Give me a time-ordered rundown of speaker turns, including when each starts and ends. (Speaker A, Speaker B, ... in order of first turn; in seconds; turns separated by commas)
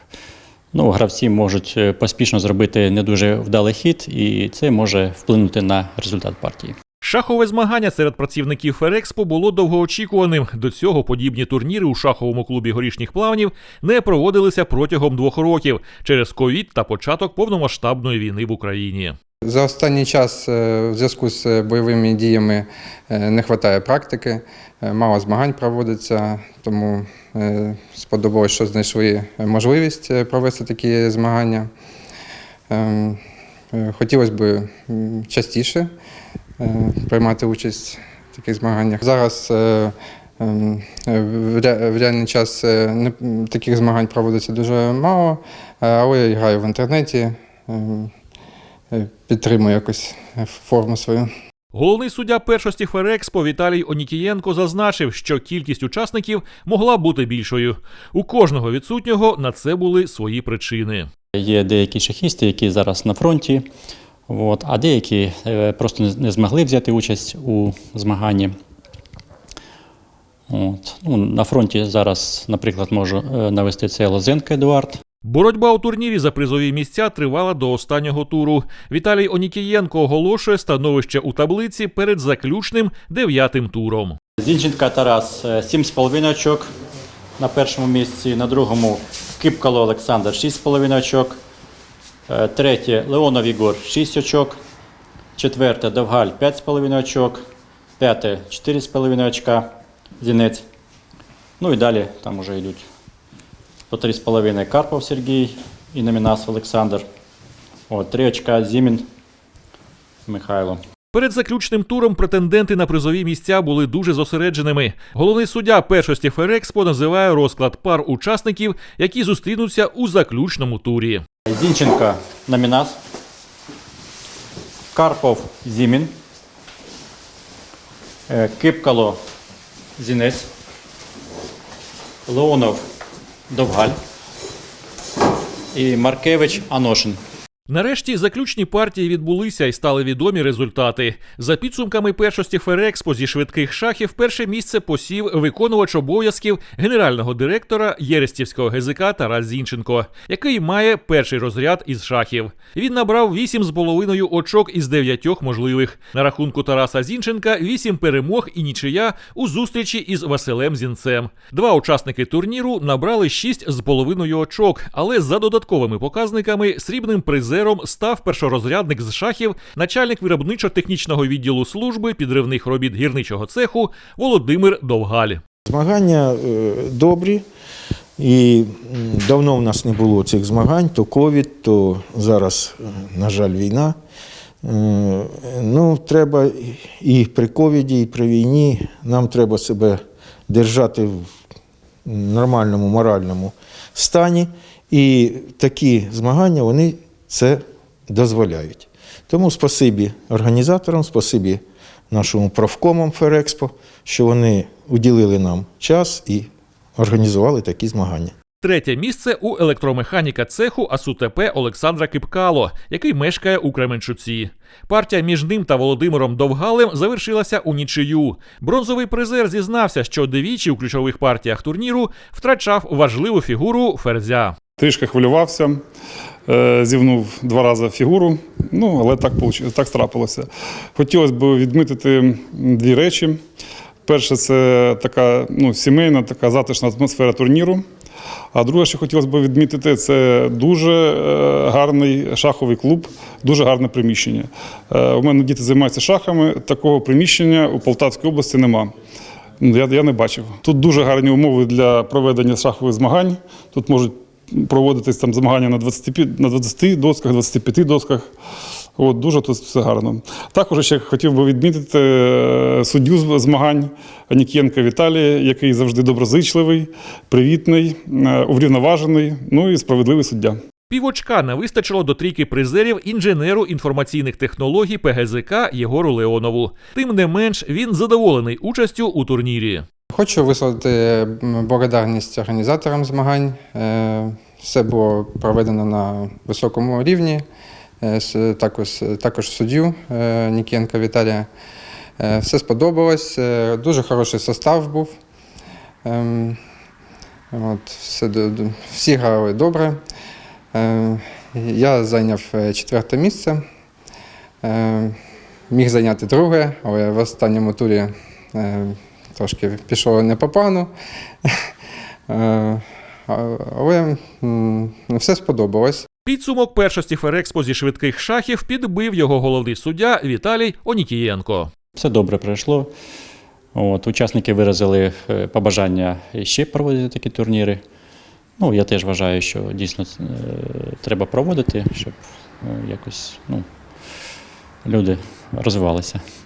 Speaker A: 0.7-6.8, Speaker B: 7.0-19.1, Speaker C: 19.4-31.7, Speaker C: 32.7-33.2, Speaker C: 33.7-35.9, Speaker C: 36.6-48.1, Speaker C: 48.9-51.3, Speaker B: 51.7-61.1, Speaker A: 61.3-63.6, Speaker A: 64.3-68.5, Speaker A: 70.5-75.0, Speaker B: 75.2-84.2, Speaker A: 84.4-86.7, Speaker A: 87.4-91.4, Speaker A: 92.3-94.6, Speaker A: 95.3-97.4, Speaker A: 98.0-100.7, Speaker A: 101.6-102.8, Speaker A: 103.9-107.0, Speaker A: 107.9-109.0, Speaker A: 110.3-110.8, Speaker B: 111.1-121.2, Speaker A: 121.5-123.0, Speaker A: 124.9-126.1, Speaker A: 128.3-129.2, Speaker A: 130.0-130.5, Speaker A: 132.3-132.8, Speaker A: 133.5-133.9, Speaker A: 135.7-137.2, Speaker B: 137.7-175.4, Speaker D: 175.7-177.4, Speaker D: 178.2-183.9, Speaker D: 184.6-191.3, Speaker D: 192.0-208.3, Speaker B: 208.6-224.6, Speaker E: 224.8-225.8, Speaker E: 226.5-233.4, Speaker E: 234.0-237.8, Speaker E: 238.5-248.9, Speaker E: 249.6-258.3, Speaker E: 259.0-270.6, Speaker B: 270.9-279.8, Speaker C: 280.1-287.4, Speaker C: 288.0-291.5, Speaker C: 292.2-295.1, Speaker C: 296.0-296.6, Speaker C: 297.5-300.0, Speaker C: 300.7-303.6, Speaker C: 304.6-305.1, Speaker C: 305.7-310.9, Speaker C: 312.3-316.1, Speaker B: 316.2-321.7, Speaker A: 321.9-322.9, Speaker A: 323.7-327.8, Speaker A: 328.6-333.7, Speaker A: 334.8-336.2